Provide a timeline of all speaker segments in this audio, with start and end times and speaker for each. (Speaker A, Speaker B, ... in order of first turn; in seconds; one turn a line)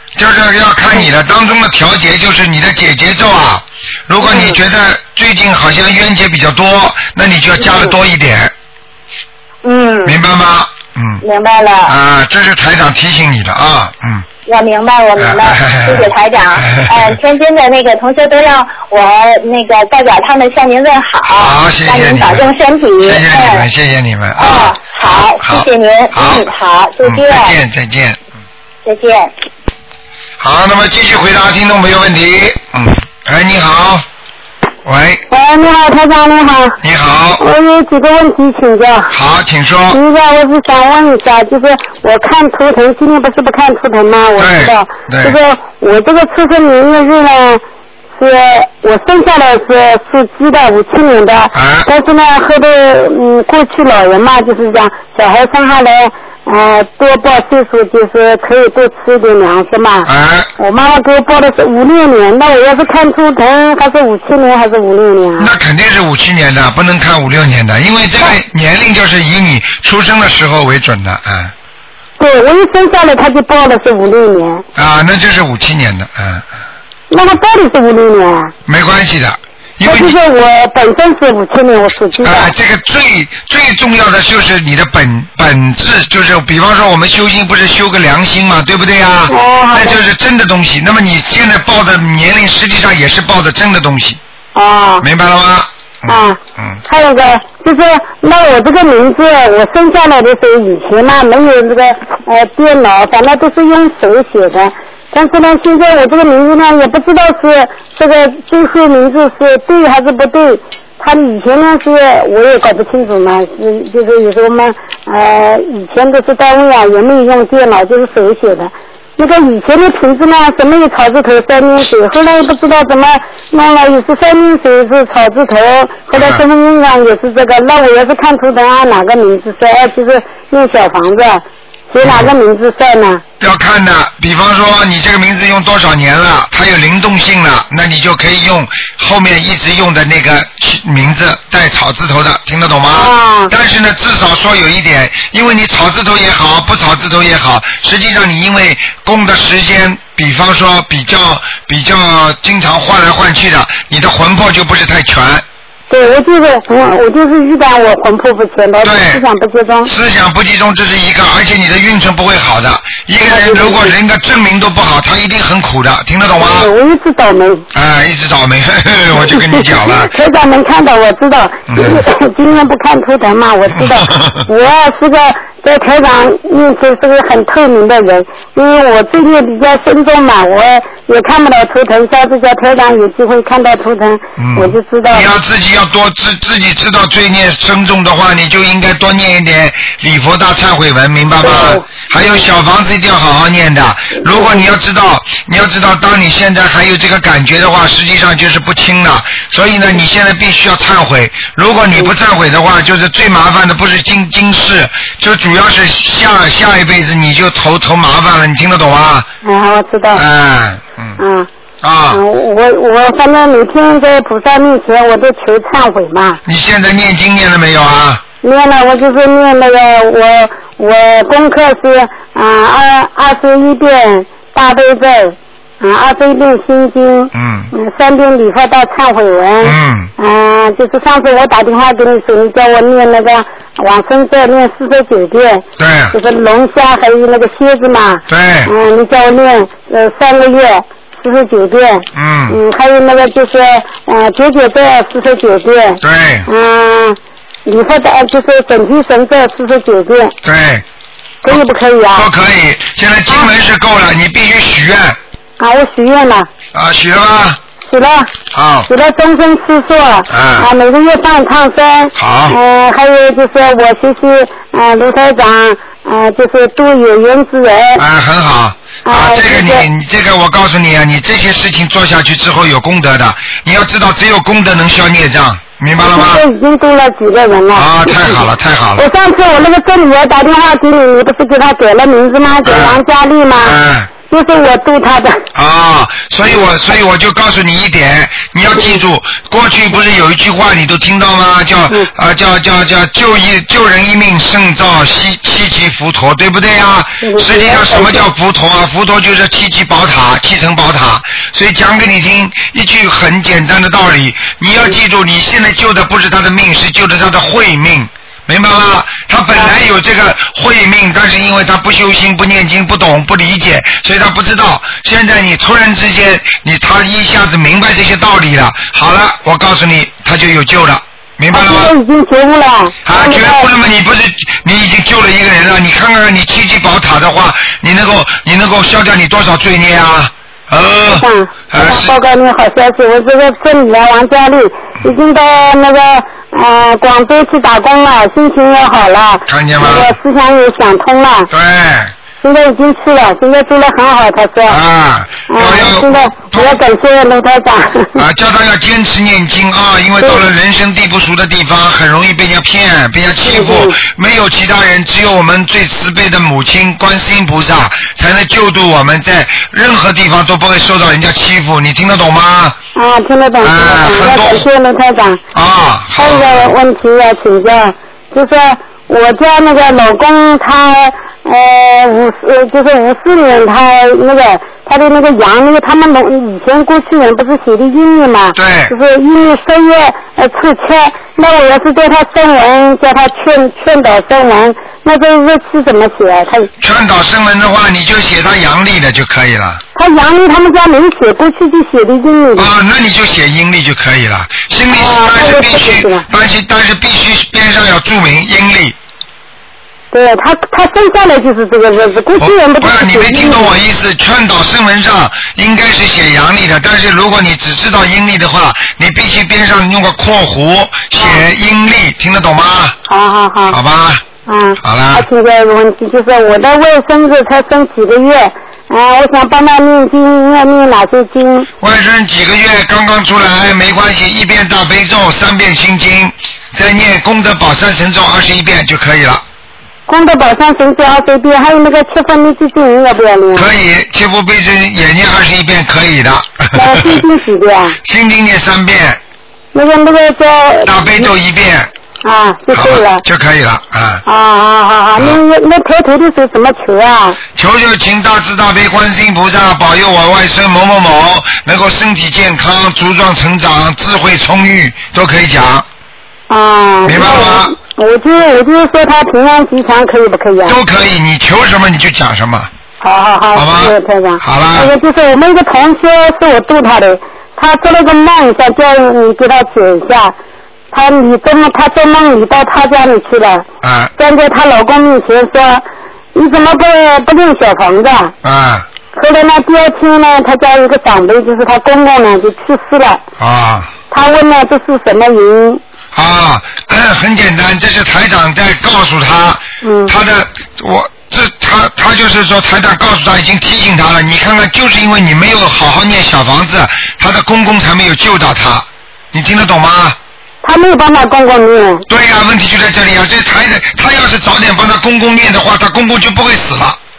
Speaker A: 0.1-8.5
Speaker B: 4.2-4.6
Speaker B: 7.6-7.9
Speaker B: 9.6-10.2
Speaker A: 10.0-11.2
Speaker B: 11.2-11.9
Speaker A: 11.8-14.2
Speaker B: 14.4-23.7
Speaker A: 15.2-17.2
Speaker A: 21.2-22.5
Speaker A: 23.0-26.5
Speaker B: 24.4-27.5
Speaker A: 27.0-28.2
Speaker B: 28.8-29.3
Speaker A: 30.4-34.0
Speaker A: 34.8-35.2
Speaker C: 35.3-36.8
Speaker A: 36.8-37.4
Speaker C: 37.4-39.1
Speaker A: 39.1-40.0
Speaker C: 39.9-47.6
Speaker A: 44.4-45.4
Speaker C: 48.2-65.5
Speaker A: 51.5-51.9
Speaker A: 60.0-60.5
Speaker A: 65.4-71.5
Speaker C: 72.2-74.6
Speaker A: 74.8-76.5
Speaker C: 77.1-78.5
Speaker A: 78.7-80.2
Speaker C: 79.8-82.5
Speaker A: 82.2-94.2
Speaker C: 89.3-90.0
Speaker C: 94.5-95.0
Speaker A: 95.0-96.8
Speaker C: 96.1-133.2
Speaker A: 126.1-126.4
Speaker A: 132.0-132.3
Speaker A: 133.4-155.4
Speaker C: 142.9-143.5
Speaker C: 155.9-159.9
Speaker A: 158.8-159.2
Speaker A: 159.8-166.7
Speaker C: 163.2-163.9
Speaker C: 166.4-167.7
Speaker A: 167.7-170.1
Speaker C: 169.2-185.3
Speaker A: 171.7-172.0
Speaker A: 173.8-174.4
Speaker A: 184.4-209.3
Speaker C: 191.4-191.9
Speaker C: 194.2-194.6
Speaker C: 209.4-210.2
Speaker A: 210.1-211.2
Speaker C: 211.2-211.5
Speaker A: 211.8-212.2
Speaker C: 212.1-216.4
Speaker A: 216.4-218.2
Speaker C: 218.4-250.3
Speaker A: 227.3-227.7
Speaker A: 229.6-230.1
Speaker A: 235.8-236.1
Speaker A: 238.3-238.7
Speaker A: 242.1-242.6
Speaker A: 246.0-246.5
Speaker A: 250.4-250.8
Speaker C: 251.4-252.3
Speaker A: 252.1-255.2
Speaker C: 255.6-256.5
Speaker A: 256.7-257.6
Speaker C: 257.8-258.3
Speaker A: 258.5-258.9
Speaker C: 258.9-268.0
Speaker A: 260.3-260.7
Speaker A: 262.1-262.6
Speaker A: 268.0-276.4
Speaker C: 269.0-269.9
Speaker C: 276.0-285.4
Speaker A: 277.7-279.1
Speaker A: 282.6-283.0
Speaker A: 283.6-284.1
Speaker A: 285.5-321.9
Speaker C: 297.2-298.3
Speaker C: 321.5-323.7
Speaker A: 323.0-332.1
Speaker C: 331.1-341.5
Speaker A: 339.5-340.1
Speaker A: 341.5-342.1
Speaker C: 342.4-344.8
Speaker A: 344.7-346.8
Speaker C: 345.5-348.2
Speaker A: 348.1-362.8
Speaker C: 353.4-354.0
Speaker C: 362.9-365.4
Speaker A: 363.6-364.7
Speaker A: 365.5-366.7
Speaker C: 366.2-386.7
Speaker A: 378.5-378.9
Speaker A: 386.8-389.8
Speaker C: 389.9-392.7
Speaker A: 392.6-399.0
Speaker C: 394.9-396.2
Speaker C: 400.1-403.7
Speaker A: 402.4-413.0
Speaker C: 413.1-413.8
Speaker A: 413.7-414.2
Speaker C: 414.5-421.7
Speaker A: 414.8-415.3
Speaker A: 421.8-429.4
Speaker C: 430.1-433.7
Speaker A: 433.5-437.2
Speaker C: 436.7-438.0
Speaker A: 438.0-439.2
Speaker C: 439.7-441.3
Speaker A: 440.8-441.9
Speaker C: 442.2-443.2
Speaker A: 442.7-444.2
Speaker C: 444.2-447.4
Speaker A: 447.5-455.9
Speaker C: 456.5-460.8
Speaker A: 457.1-457.8
Speaker A: 460.6-462.7
Speaker C: 463.0-470.4
Speaker A: 463.5-464.9
Speaker C: 470.9-473.6
Speaker A: 473.8-474.1
Speaker C: 474.2-478.3
Speaker A: 478.4-478.9
Speaker C: 479.1-483.2
Speaker A: 483.4-483.9
Speaker C: 484.1-485.8
Speaker A: 486.1-500.2
Speaker C: 489.8-490.1
Speaker C: 500.6-502.0
Speaker A: 502.1-507.0